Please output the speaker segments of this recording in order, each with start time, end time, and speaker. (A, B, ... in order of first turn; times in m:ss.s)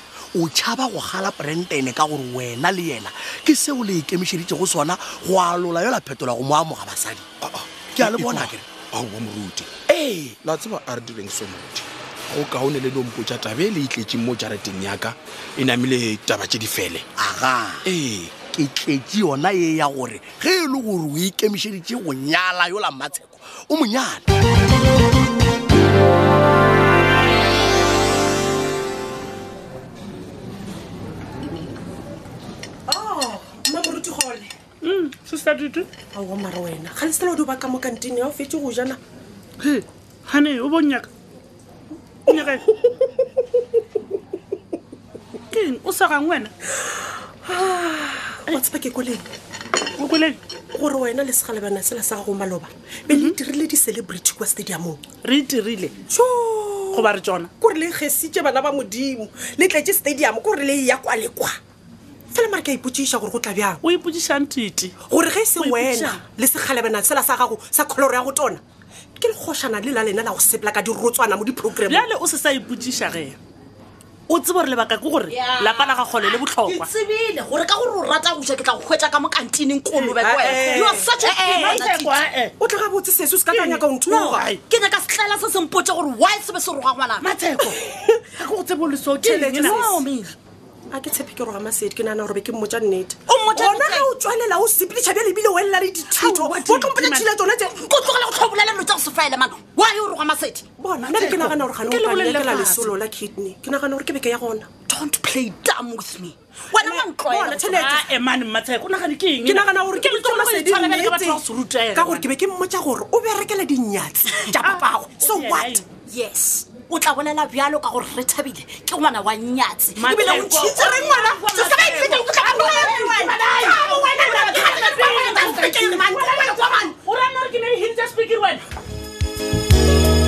0:00.3-0:07.3 A
0:07.4-0:09.7 B
0:08.0-0:08.6 A
0:09.9-0:10.4 A
0:10.4-0:17.1 B
0:17.2-0:17.9 A
0:17.8-0:18.4 B
0:18.4-0:24.2 A
0:32.9-0:34.5 C
0:34.8-0:35.9 D
0:36.1-0:39.0 C
0:39.6-0:41.1 D
0:42.3-0:42.7 D
0:45.5-0:46.5 D
0:47.4-0:49.3 C
0:50.0-0:50.4 D
0:50.7-0:55.0 C
0:53.1-0:53.4 D
0:55.2-0:56.0 D
0:56.1-0:57.1 C
0:56.9-0:57.5 D
0:57.6-1:01.6 C
1:02.3-1:03.8 C
1:03.8-1:05.0 D
1:05.1-1:08.6 C
1:05.6-1:06.2 D
1:09.2-1:12.1 C
1:11.8-1:13.4 D
1:14.3-1:16.9 D
1:15.3-1:22.2 E
1:20.0-1:22.5 D
1:20.4-1:21.8 C
1:22.6-1:24.4 C
1:23.5-1:24.6 D
1:24.1-1:27.3 E
1:27.2-1:30.3 D
1:29.2-1:30.0 C
1:30.9-1:37.8 C
1:33.3-1:34.1 E
1:36.0-1:37.4 D
1:37.8-1:40.6 E
1:40.8-1:44.7 C
1:41.0-1:43.0 D
1:44.9-1:47.7 E
1:46.8-1:48.1 C
1:47.3-1:52.3 D
1:49.4-1:51.4 C
1:52.0-1:55.8 C
1:54.5-1:55.9 D
1:56.1-2:05.9 E
2:00.0-2:00.8 D
2:00.1-2:06.9 C
2:03.2-2:08.6 D